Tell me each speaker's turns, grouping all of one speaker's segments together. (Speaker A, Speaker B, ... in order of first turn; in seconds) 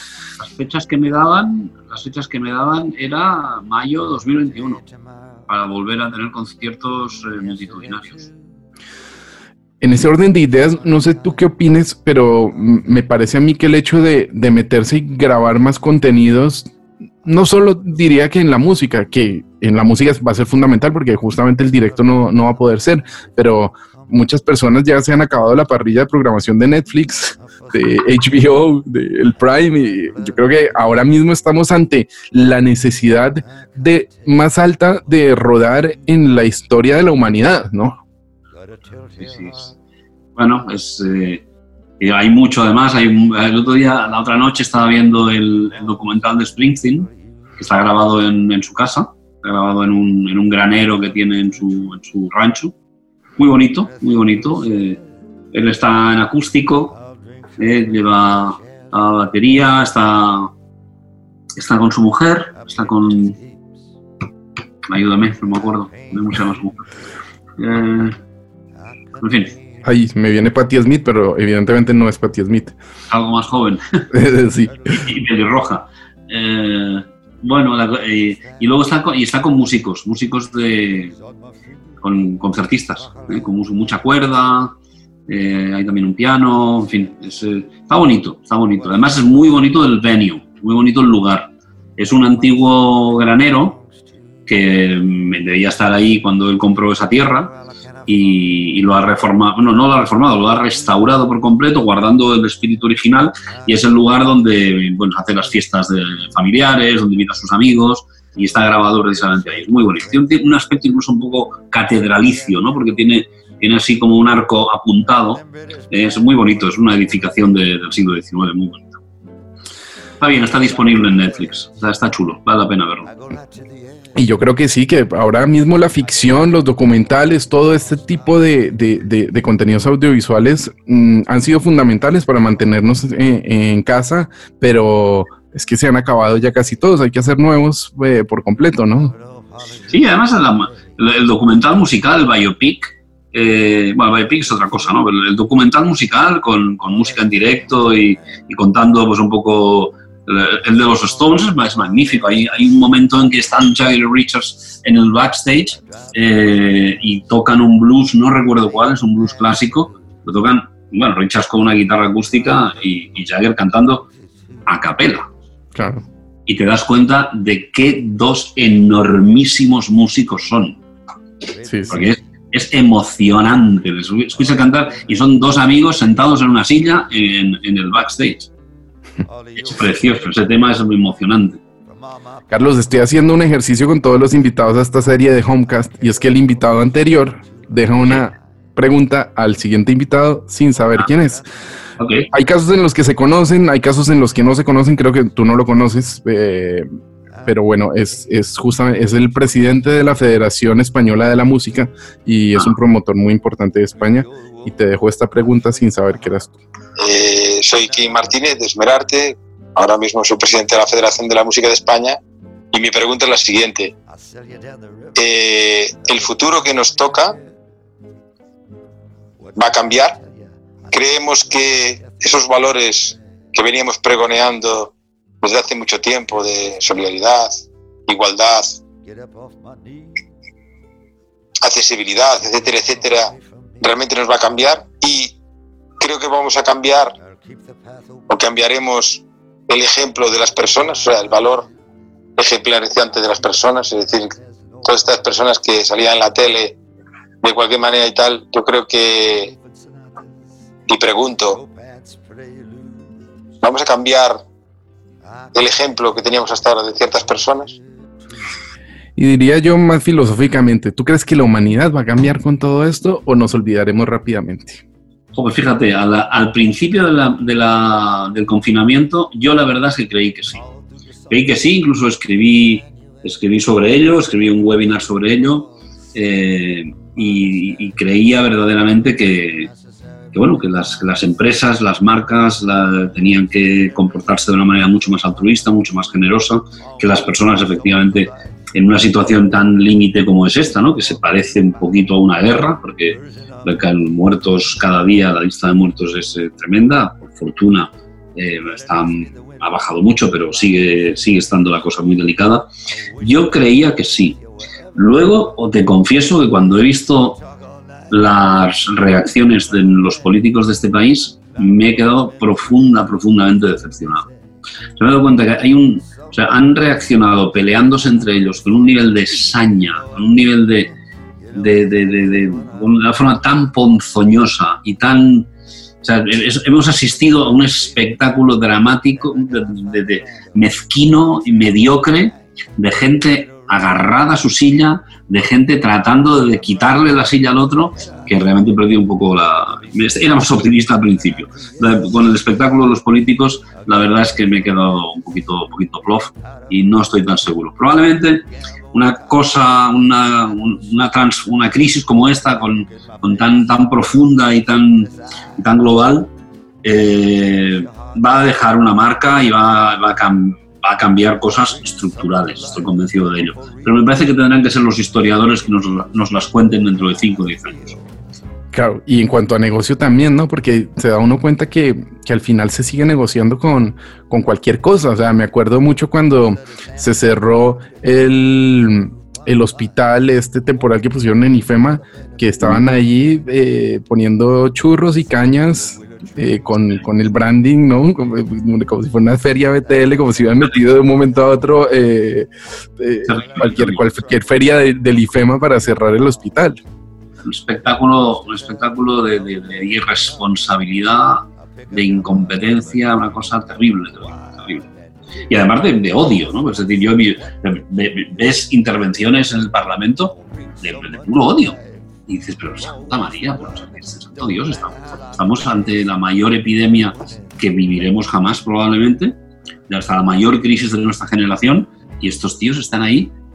Speaker A: 0.4-4.8, 5.5-8.3, 39.2-39.7, 40.4-41.4, 42.0-52.7, 53.4-55.0, 55.5-57.0, 57.6-60.5, 61.5-63.4, 64.9-66.9, 67.6-68.2, 69.2-69.5, 73.1-74.0, 74.9-81.2, 82.0-84.7, 85.3-93.8, 94.5-119.0, 120.2-123.1, 139.9-164.1, 164.7-165.3, 166.4-170.8, 171.9-178.5, 179.5-181.6, 192.0-192.3, 265.3-270.6, 271.3-279.7, 280.3-304.4, 304.9-307.4, 308.1-314.3, 315.0-320.9, 321.5-325.5, 326.0-356.3, 356.8-368.0, 393.2-394.0, 397.4-404.9, 405.5-419.4, 419.9-423.3
Speaker B: 9.8-16.7, 17.2-38.0, 69.8-72.7, 74.1-75.0, 124.2-139.1, 165.7-166.0, 171.6-172.0, 182.5-191.4, 192.3-196.9, 197.4-206.6, 259.1-264.8, 368.7-396.8
Speaker C: 207.0-212.2, 212.7-213.9, 215.2-217.3, 219.5-220.2, 220.9-228.8, 231.6-235.3, 236.0-237.1, 238.3-241.7, 242.4-246.8, 247.4-249.5, 250.9-251.6, 253.6-254.4, 255.5-257.8